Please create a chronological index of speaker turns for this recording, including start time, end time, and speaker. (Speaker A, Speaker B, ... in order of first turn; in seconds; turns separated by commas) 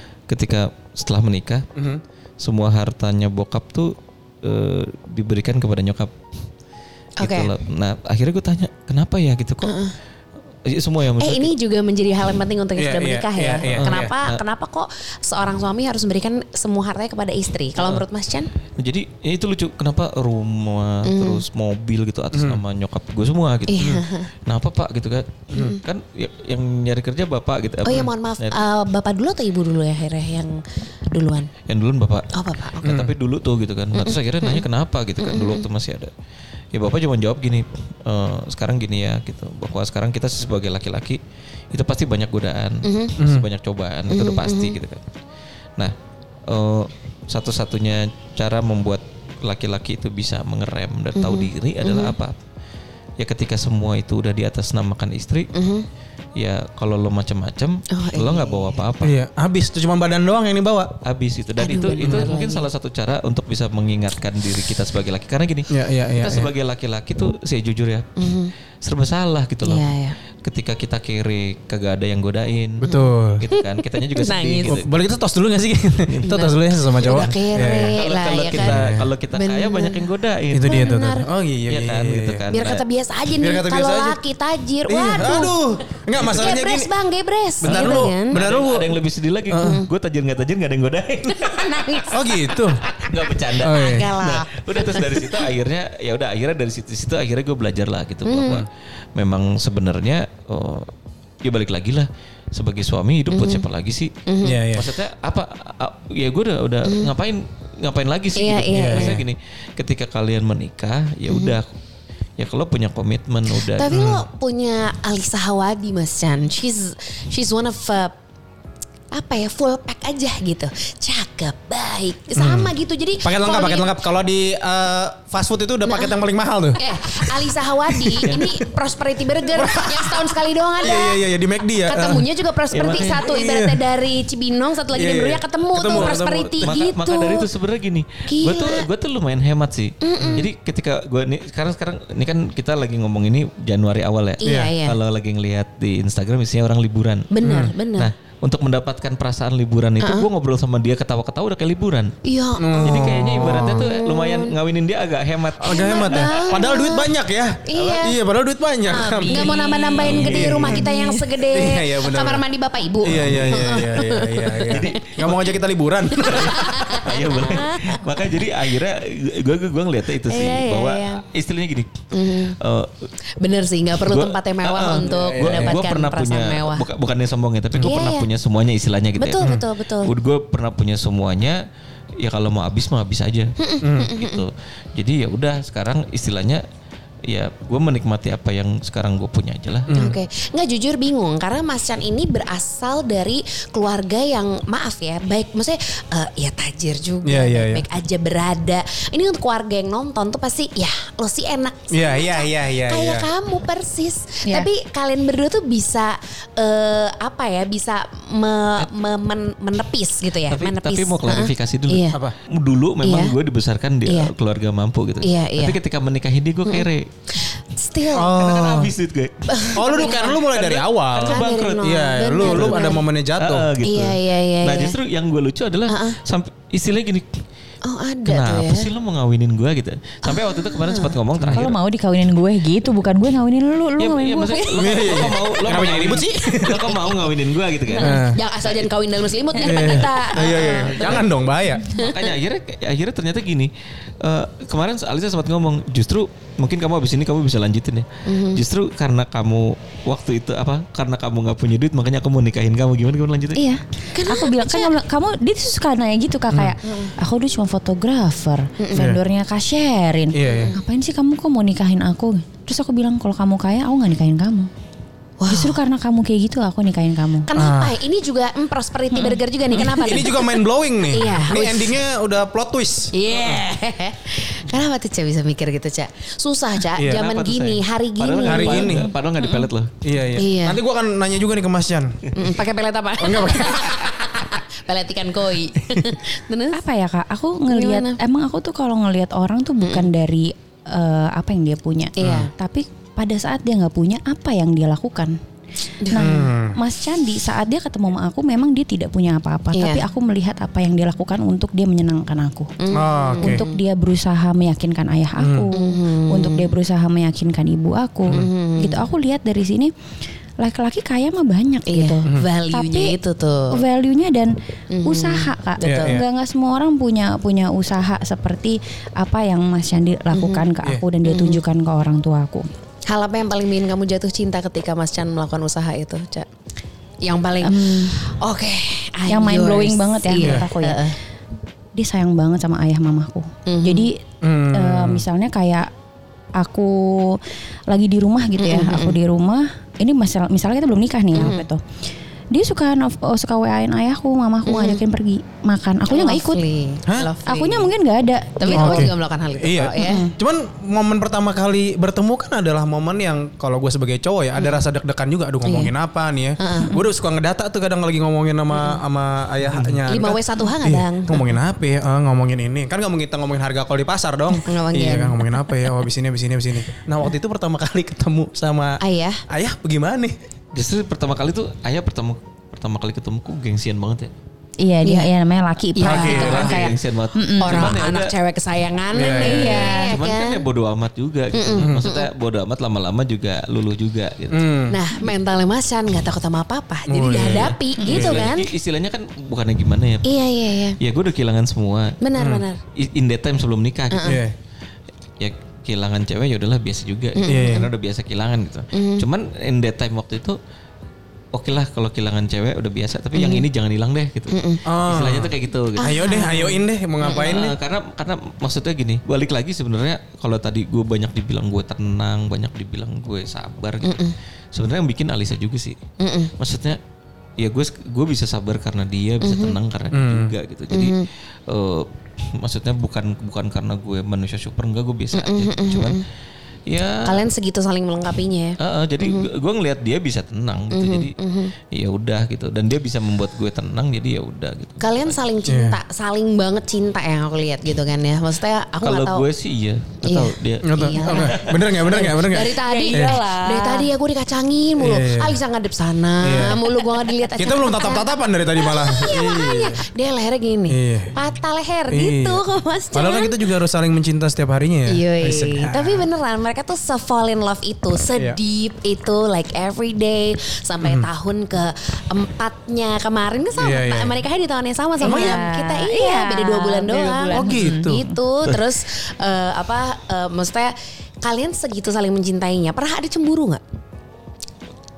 Speaker A: 0.3-1.7, Speaker B: 1.8-2.0, Speaker A: 2.4-6.1, Speaker C: 7.2-7.5, Speaker A: 7.2-9.8, Speaker C: 9.6-9.9, Speaker A: 10.7-11.5, Speaker C: 11.2-18.5, Speaker B: 12.8-14.2, Speaker A: 13.7-14.4, Speaker A: 17.8-18.0, Speaker A: 18.8-28.6, Speaker C: 21.1-21.4, Speaker B: 22.3-22.6, Speaker C: 23.7-24.3, Speaker C: 25.5-25.8, Speaker C: 27.9-31.5, Speaker A: 31.7-36.1, Speaker C: 32.3-32.9, Speaker B: 32.8-33.1, Speaker C: 34.0-34.6, Speaker C: 35.2-35.6, Speaker A: 36.7-41.2, Speaker A: 41.7-45.0, Speaker C: 42.8-43.1, Speaker B: 43.2-43.5, Speaker C: 44.1-44.8, Speaker A: 46.5-52.3, Speaker C: 51.1-52.1, Speaker A: 53.2-55.5, Speaker C: 55.5-55.9, Speaker A: 56.4-59.1, Speaker C: 57.9-58.8, Speaker B: 59.0-60.9, Speaker A: 61.0-68.1, Speaker C: 61.6-62.7, Speaker B: 62.0-62.3, Speaker B: 65.7-66.5, Speaker C: 68.2-68.5, Speaker A: 68.8-69.9, Speaker C: 69.6-70.2, Speaker A: 70.4-72.9, Speaker B: 72.8-73.5, Speaker C: 72.8-74.8, Speaker A: 73.4-74.9, Speaker B: 74.7-78.0, Speaker A: 76.1-76.5, Speaker C: 76.2-80.1, Speaker A: 77.0-81.0, Speaker B: 78.5-79.1, Speaker B: 80.5-82.5, Speaker C: 80.7-81.3, Speaker A: 81.7-82.8, Speaker C: 82.5-85.5, Speaker B: 83.4-84.2, Speaker B: 84.9-86.9, Speaker C: 86.2-88.4, Speaker B: 87.6-89.8, Speaker A: 87.6-92.2, Speaker C: 89.6-89.9, Speaker C: 91.3-93.1, Speaker B: 92.1-92.8, Speaker A: 92.9-100.9, Speaker B: 93.6-94.1, Speaker C: 93.6-95.5, Speaker C: 98.2-98.6, Speaker A: 101.4-104.1, Speaker C: 103.3-103.6, Speaker C: 104.3-104.6, Speaker B: 104.4-104.9, Speaker A: 104.7-111.7, Speaker C: 106.8-107.1, Speaker C: 108.4-109.2, Speaker B: 108.7-109.2, Speaker C: 111.3-111.6, Speaker A: 112.4-114.0, Speaker C: 113.5-118.2, Speaker B: 113.9-114.2, Speaker C: 119.1-123.9, Speaker B: 122.3-128.6, Speaker C: 125.9-126.2, Speaker C: 126.8-131.2, Speaker B: 129.5-132.3, Speaker C: 131.9-137.5, Speaker A: 132.7-133.2, Speaker B: 132.8-133.8, Speaker B: 134.9-136.7, Speaker A: 135.9-147.3, Speaker C: 138.3-138.8, Speaker C: 140.0-140.5, Speaker B: 140.2-140.5, Speaker C: 144.4-145.0, Speaker B: 144.4-144.8, Speaker C: 147.3-148.1, Speaker B: 147.4-147.7, Speaker A: 147.9-152.1, Speaker C: 150.0-150.3, Speaker C: 152.2-154.5, Speaker B: 152.6-153.9, Speaker A: 152.8-156.6, Speaker B: 155.6-160.9, Speaker C: 155.7-157.1, Speaker C: 157.7-158.2, Speaker A: 157.7-158.1, Speaker D: 158.9-160.0, Speaker C: 159.0-165.0, Speaker A: 160.0-160.8, Speaker D: 160.7-161.3, Speaker B: 161.4-162.4, Speaker B: 163.0-166.9, Speaker A: 163.1-163.8, Speaker A: 164.7-165.5, Speaker C: 166.2-168.4, Speaker A: 166.2-173.1, Speaker C: 170.2-171.2, Speaker C: 172.1-172.6, Speaker C: 173.4-176.8, Speaker A: 174.0-181.6, Speaker B: 175.1-175.8, Speaker C: 177.8-178.3, Speaker C: 179.2-180.1, Speaker A: 182.2-186.6, Speaker C: 183.6-184.4, Speaker B: 183.8-184.1, Speaker A: 187.3-189.9, Speaker B: 189.9-190.2, Speaker C: 189.9-212.2, Speaker B: 197.2-197.8, Speaker B: 201.9-203.3, Speaker A: 210.5-217.1, Speaker C: 213.0-213.3, Speaker C: 214.1-214.3, Speaker C: 215.2-215.8, Speaker C: 216.7-218.3, Speaker B: 218.1-218.9, Speaker A: 218.2-227.3, Speaker C: 219.5-220.4, Speaker B: 219.8-223.7, Speaker C: 221.2-223.0, Speaker C: 223.8-224.9, Speaker C: 225.9-226.2, Speaker C: 227.8-228.9, Speaker A: 228.2-231.8, Speaker C: 230.2-231.2, Speaker B: 231.4-231.7, Speaker D: 231.5-235.1, Speaker A: 234.0-238.9, Speaker B: 234.8-237.0, Speaker C: 237.9-241.2, Speaker B: 238.0-238.4, Speaker B: 239.6-241.9, Speaker A: 239.6-241.2, Speaker C: 241.9-242.3, Speaker A: 241.9-253.6, Speaker C: 248.3-248.6, Speaker D: 253.6-264.7, Speaker C: 254.1-254.9, Speaker B: 256.5-256.8, Speaker C: 256.9-257.1, Speaker C: 258.8-259.1, Speaker B: 260.3-260.8, Speaker C: 260.4-260.8, Speaker C: 265.4-265.8, Speaker D: 265.5-267.5, Speaker C: 267.4-272.0, Speaker B: 267.6-268.0, Speaker D: 269.1-269.4, Speaker B: 269.7-273.6, Speaker C: 273.1-279.1, Speaker B: 277.0-277.2, Speaker A: 277.0-279.9, Speaker B: 278.4-279.1, Speaker B: 280.0-282.3, Speaker C: 280.3-280.8, Speaker C: 282.4-286.8, Speaker B: 283.2-284.0, Speaker D: 286.7-295.4, Speaker C: 287.7-288.2, Speaker C: 289.8-290.1, Speaker C: 292.2-292.5, Speaker B: 292.2-292.5, Speaker C: 296.0-296.5, Speaker D: 296.1-302.7, Speaker B: 296.1-296.8, Speaker C: 299.7-300.0, Speaker C: 302.8-303.8, Speaker B: 302.9-303.6, Speaker D: 303.4-309.9, Speaker B: 305.4-305.7, Speaker C: 305.7-306.7, Speaker C: 308.3-309.1, Speaker D: 310.6-313.2, Speaker C: 311.9-313.8, Speaker D: 313.7-322.7, Speaker C: 314.9-316.2, Speaker B: 315.8-316.2, Speaker C: 320.3-320.7, Speaker C: 321.2-321.6, Speaker C: 323.1-326.5, Speaker C: 327.2-331.2, Speaker D: 327.6-328.2, Speaker D: 329.3-331.0, Speaker B: 330.4-330.7, Speaker D: 332.0-335.9, Speaker C: 333.7-334.1, Speaker B: 334.4-335.2, Speaker D: 336.6-341.8, Speaker C: 338.6-339.2, Speaker C: 341.3-341.7, Speaker D: 342.5-346.6, Speaker C: 344.7-345.0, Speaker C: 346.1-347.9, Speaker D: 347.5-349.1, Speaker C: 348.6-350.3, Speaker B: 348.7-370.4, Speaker D: 350.0-350.3, Speaker C: 355.6-355.9, Speaker C: 356.6-357.0, Speaker C: 358.7-359.0, Speaker C: 360.1-361.4, Speaker C: 364.6-365.7, Speaker C: 369.0-369.4, Speaker A: 370.7-374.3, Speaker D: 374.8-377.9, Speaker C: 375.1-375.3, Speaker C: 375.9-376.9, Speaker B: 376.0-376.9, Speaker A: 376.1-378.3, Speaker C: 377.6-380.6, Speaker B: 379.1-379.9, Speaker D: 379.3-380.1, Speaker A: 379.6-384.7, Speaker C: 381.5-382.3, Speaker B: 381.8-382.1, Speaker B: 384.5-385.0, Speaker C: 384.9-388.7, Speaker B: 387.1-388.5, Speaker A: 387.3-390.3, Speaker D: 388.0-388.2, Speaker C: 390.2-391.0, Speaker A: 391.0-392.2, Speaker C: 392.2-392.8, Speaker B: 392.4-392.6, Speaker A: 393.0-394.4, Speaker C: 394.1-394.4, Speaker B: 394.2-394.6, Speaker A: 395.4-400.6, Speaker C: 397.4-397.9, Speaker B: 397.5-397.9, Speaker C: 398.9-399.2, Speaker A: 401.5-406.5, Speaker C: 403.4-403.6, Speaker C: 404.5-404.8, Speaker B: 404.9-407.8, Speaker C: 406.0-407.6, Speaker A: 407.2-416.0, Speaker C: 414.0-414.4, Speaker C: 416.2-416.5, Speaker A: 416.6-417.0, Speaker A: 417.6-426.2, Speaker C: 419.4-419.8, Speaker B: 420.1-420.5, Speaker C: 420.9-421.3, Speaker C: 425.3-426.2, Speaker A: 426.9-427.4, Speaker C: 427.2-429.5, Speaker A: 428.8-431.4, Speaker C: 430.9-431.7, Speaker A: 431.9-435.4, Speaker C: 435.0-439.4, Speaker B: 435.7-436.0, Speaker A: 439.0-442.0, Speaker C: 440.2-453.6, Speaker B: 440.8-443.4, Speaker D: 442.7-444.1, Speaker B: 445.0-445.6, Speaker B: 446.4-446.8, Speaker D: 446.6-447.2, Speaker B: 447.6-450.1, Speaker B: 450.9-451.4, Speaker B: 452.1-452.6, Speaker B: 453.1-456.3, Speaker C: 455.1-473.8, Speaker B: 461.0-461.3, Speaker B: 463.8-464.4, Speaker D: 465.2-468.3, Speaker B: 465.2-465.6, Speaker B: 467.5-468.2